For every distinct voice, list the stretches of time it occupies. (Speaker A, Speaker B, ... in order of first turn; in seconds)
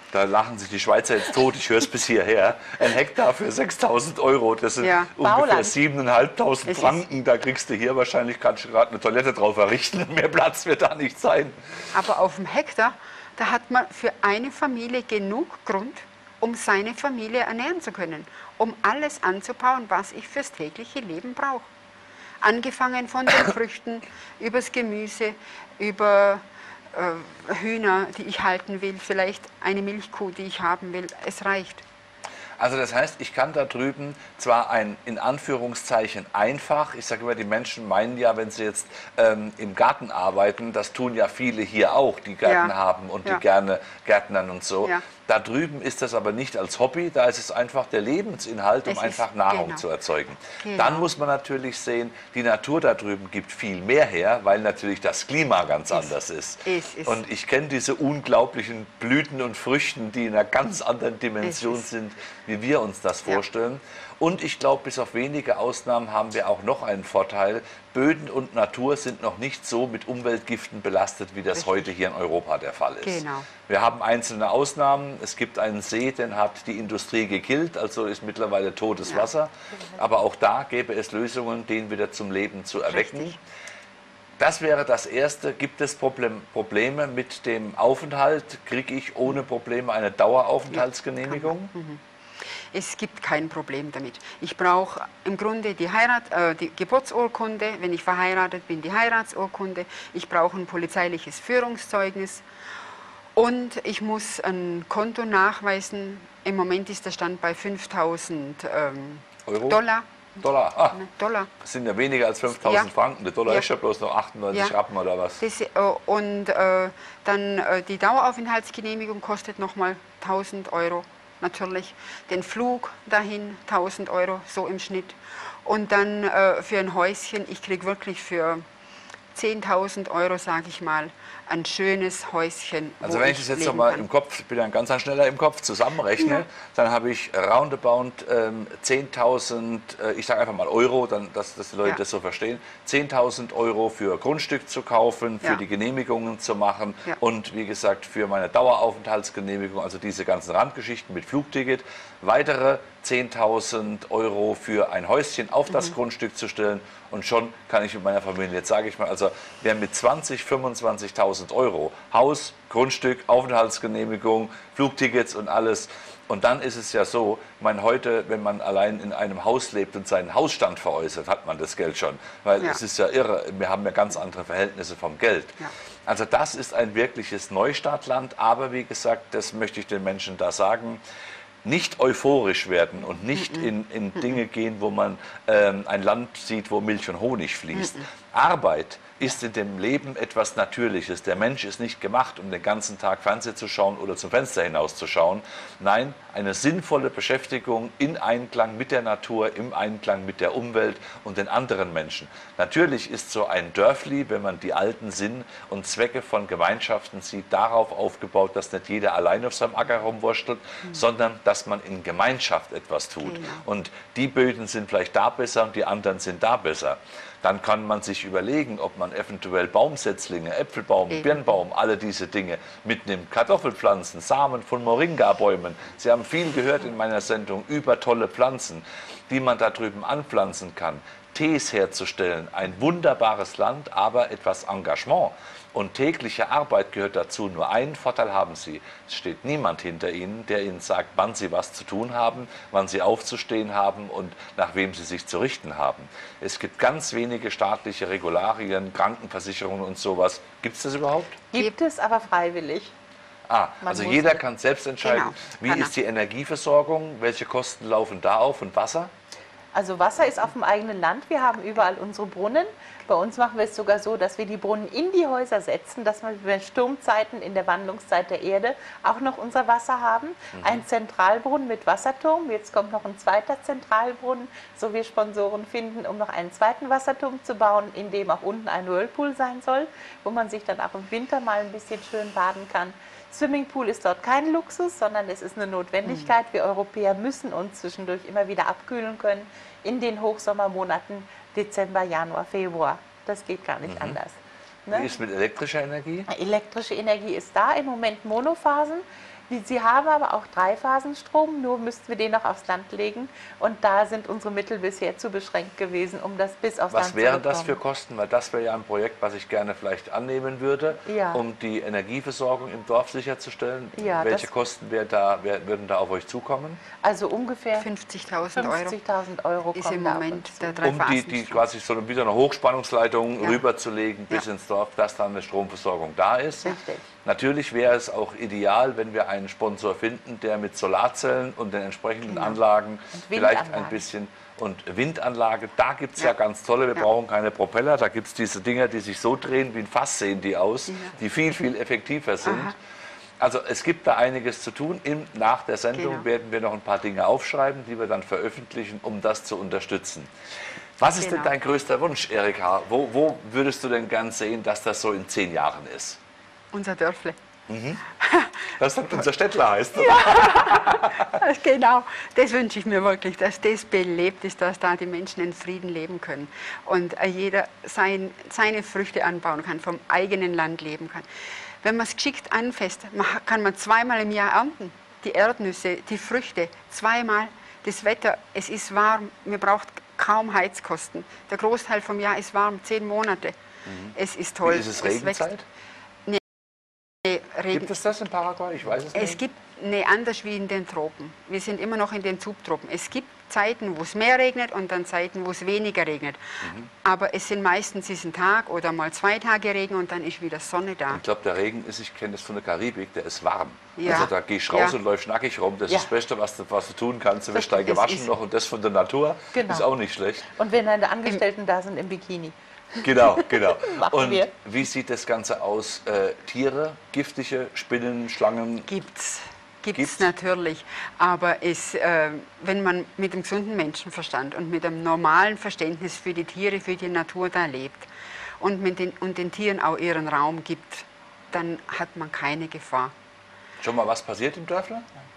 Speaker A: 0.1-11.9, 32.6-83.3, 84.4-91.7, 109.5-109.8, 110.4-111.1, 111.6-115.4, 133.0-181.0, 181.6-251.4, 253.5-259.1, 270.5-270.8, 293.9-294.2, 294.9-296.3, 306.9-316.8, 320.8-342.8, 343.4-350.3, 351.0-356.2, 357.7-358.0, 358.7-361.4, 383.9-385.6, 387.7-389.4, 396.6-396.9, 401.1-410.5, 413.0-418.9, 419.9-420.3, 433.8-435.1
Speaker B: 4.8-5.1, 6.7-7.0, 11.9-21.7, 22.4-31.8, 42.4-42.7, 48.9-49.8, 50.6-51.0, 56.6-57.2, 61.4-61.8, 73.0-73.5, 82.9-83.4, 90.7-102.4, 103.3-110.1, 110.9-111.5, 112.6-112.9, 115.4-128.6, 129.3-134.0, 213.2-213.6, 221.1-221.4, 255.0-255.9, 317.8-318.9, 319.7-321.6, 332.3-332.6, 342.4-342.7, 345.9-346.2, 351.2-351.5, 356.7-357.4, 358.2-358.6, 360.0-371.2, 371.8-383.6, 384.1-385.5, 387.2-387.9, 389.1-401.2, 404.0-404.9, 407.5-408.3, 418.9-433.1
Speaker C: 5.2-5.7, 251.5-252.9, 253.8-254.4, 259.7-295.2, 296.3-307.8, 311.1-311.4, 313.9-314.5, 317.0-317.9, 318.6-320.9, 326.6-327.0, 333.1-334.0, 409.5-409.9, 410.5-414.5